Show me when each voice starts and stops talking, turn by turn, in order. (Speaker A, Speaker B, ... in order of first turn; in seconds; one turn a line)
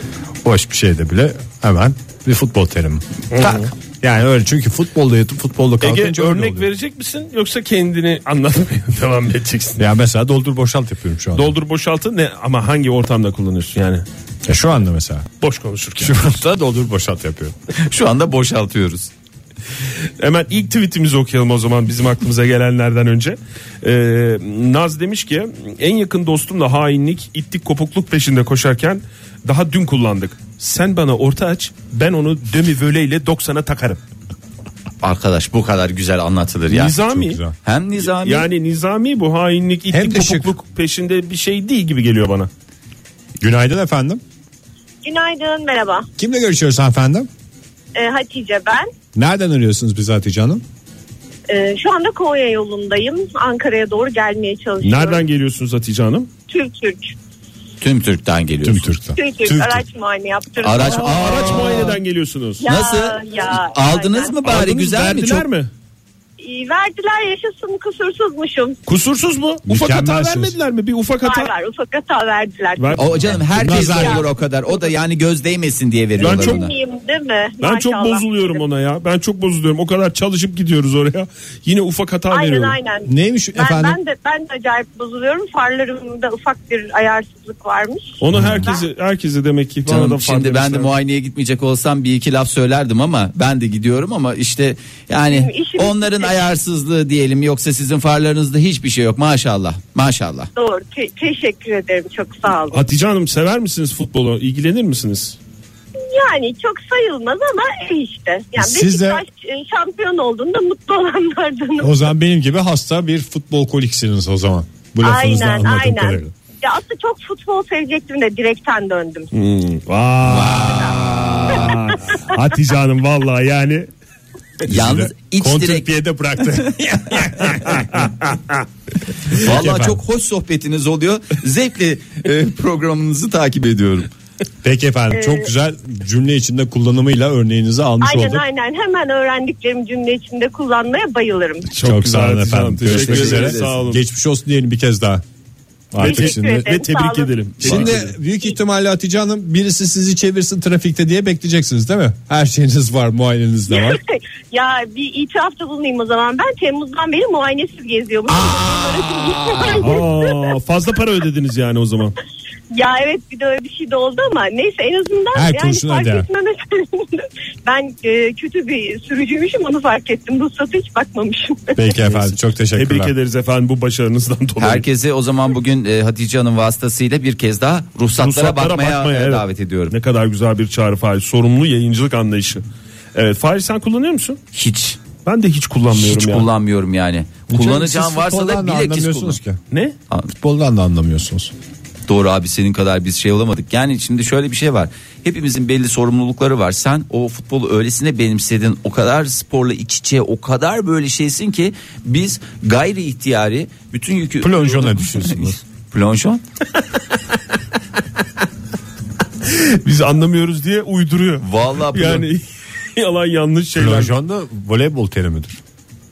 Speaker A: 0.4-6.7
Speaker B: 3.3-3.7
Speaker B: 5.8-9.9
Speaker A: 9.8-11.5
Speaker B: 11.3-14.1
Speaker A: 14.4-15.3
Speaker B: 15.4-16.2
Speaker A: 16.0-17.6
Speaker C: 17.7-19.1
Speaker B: 20.2-34.0
Speaker C: 35.0-37.0
Speaker B: 36.7-37.4
Speaker A: 37.0-37.5
Speaker C: 37.6-38.5
Speaker B: 38.0-42.5
Speaker A: 39.9-40.5
Speaker A: 43.4-44.2
Speaker D: 45.0-46.1
Speaker A: 46.2-47.3
Speaker D: 48.0-48.9
Speaker A: 49.1-50.6
Speaker D: 51.5-55.2
Speaker B: 54.8-56.3
Speaker D: 56.5-57.1
Speaker C: 57.8-58.9
Speaker A: 58.6-59.9
Speaker D: 59.1-61.7
Speaker C: 60.6-62.0
Speaker B: 60.8-62.6
Speaker D: 62.6-64.5
Speaker C: 62.7-65.5
Speaker B: 64.5-65.7
Speaker D: 66.4-68.8
Speaker B: 68.9-71.5
Speaker A: 69.7-70.5
Speaker D: 71.2-74.8
Speaker B: 72.8-73.1
Speaker C: 73.0-76.7
Speaker A: 73.5-74.3
Speaker B: 76.2-76.7
Speaker D: 76.2-78.6
Speaker B: 77.6-82.8
Speaker D: 82.3-88.8
Speaker A: 83.1-84.0
Speaker B: 88.2-90.9
Speaker A: 88.3-88.7
Speaker C: 89.9-100.5
Speaker D: 95.3-96.4
Speaker D: 100.5-102.8
Speaker B: 102.7-105.4
Speaker D: 106.0-111.9
Speaker A: 108.6-109.2
Speaker A: 111.8-116.3
Speaker D: 115.0-119.3
Speaker B: 119.3-123.9
Speaker C: 120.2-121.7
Speaker D: 120.6-121.0
Speaker A: 124.7-127.8
Speaker C: 124.7-125.9
Speaker B: 127.2-128.6
Speaker C: 129.3-134.1
Speaker A: 129.3-130.0
Speaker A: 134.6-138.4
Speaker D: 135.1-135.5
Speaker D: 138.0-141.7
Speaker B: 141.7-144.0
Speaker A: 141.8-145.2
Speaker C: 142.8-143.8
Speaker A: 145.9-146.8
Speaker D: 146.0-147.9
Speaker B: 146.0-148.1
Speaker A: 147.6-154.0
Speaker D: 153.7-160.5
Speaker A: 158.3-159.9
Speaker B: 159.8-162.2
Speaker D: 162.7-171.9
Speaker A: 165.3-166.3
Speaker A: 171.8-173.1
Speaker B: 172.8-174.8
Speaker C: 174.6-179.9
Speaker B: 178.2-184.4
Speaker C: 184.5-185.0
Speaker B: 185.2-186.5
Speaker C: 185.9-189.4
Speaker A: 187.5-189.6
Speaker B: 189.7-190.0
Speaker A: 190.3-191.5
Speaker C: 192.1-206.4
Speaker A: 204.4-205.6
Speaker B: 209.4-212.4
Speaker C: 211.4-212.3
Speaker B: 213.0-214.1
Speaker A: 213.8-215.6